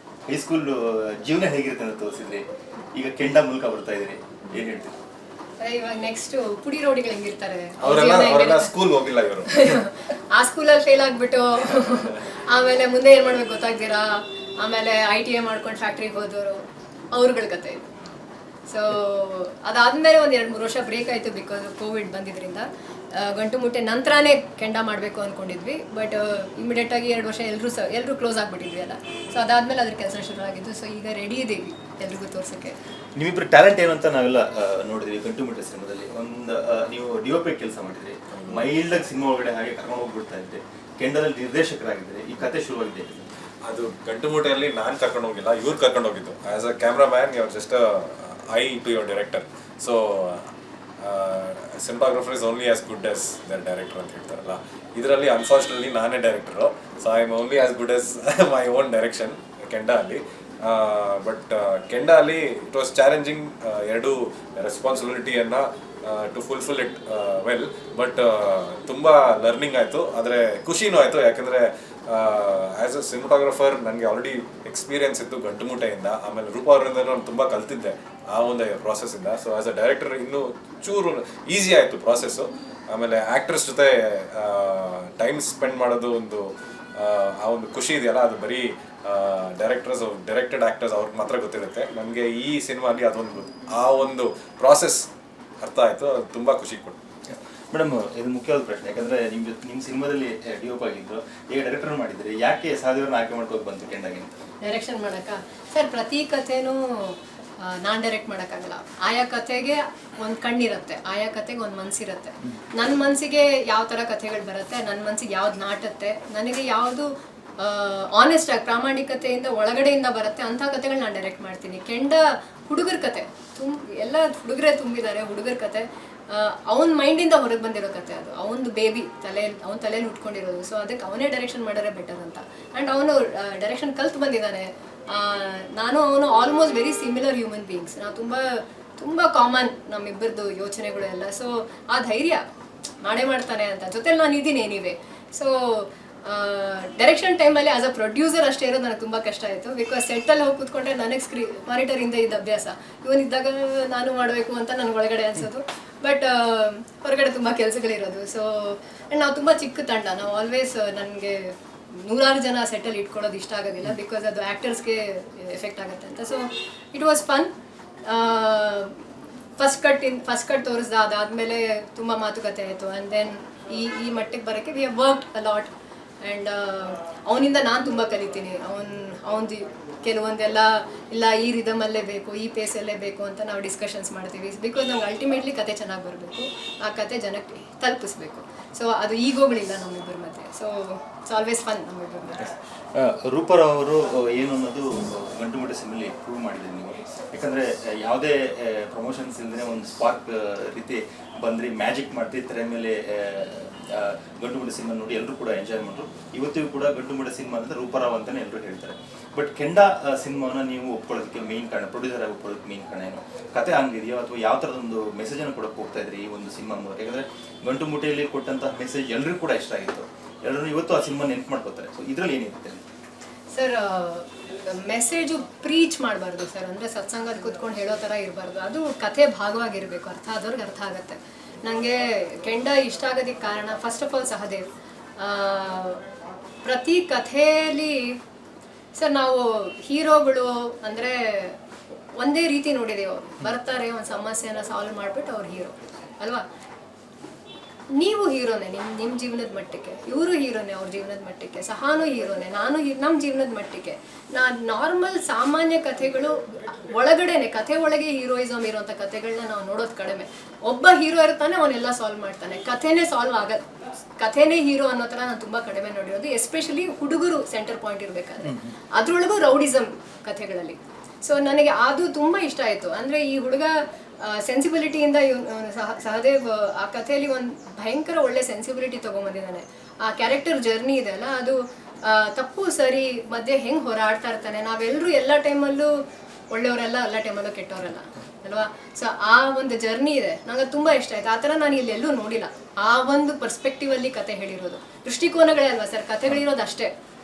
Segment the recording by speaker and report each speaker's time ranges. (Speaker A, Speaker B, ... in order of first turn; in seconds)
Speaker A: 0.3-5.0, 33.2-43.3, 97.3-104.4, 192.9-222.8, 268.4-268.8
Speaker B: 5.6-8.8, 9.4-17.9, 18.7-32.8, 104.6-142.4, 143.0-167.5, 168.1-169.0, 169.6-175.7, 176.2-192.5, 223.5-236.0, 236.6-238.2, 239.0-241.6, 242.2-246.4, 247.9-285.9, 286.5-296.9
Speaker C: 7.8-9.8, 38.3-38.7, 43.6-95.1, 95.6-97.0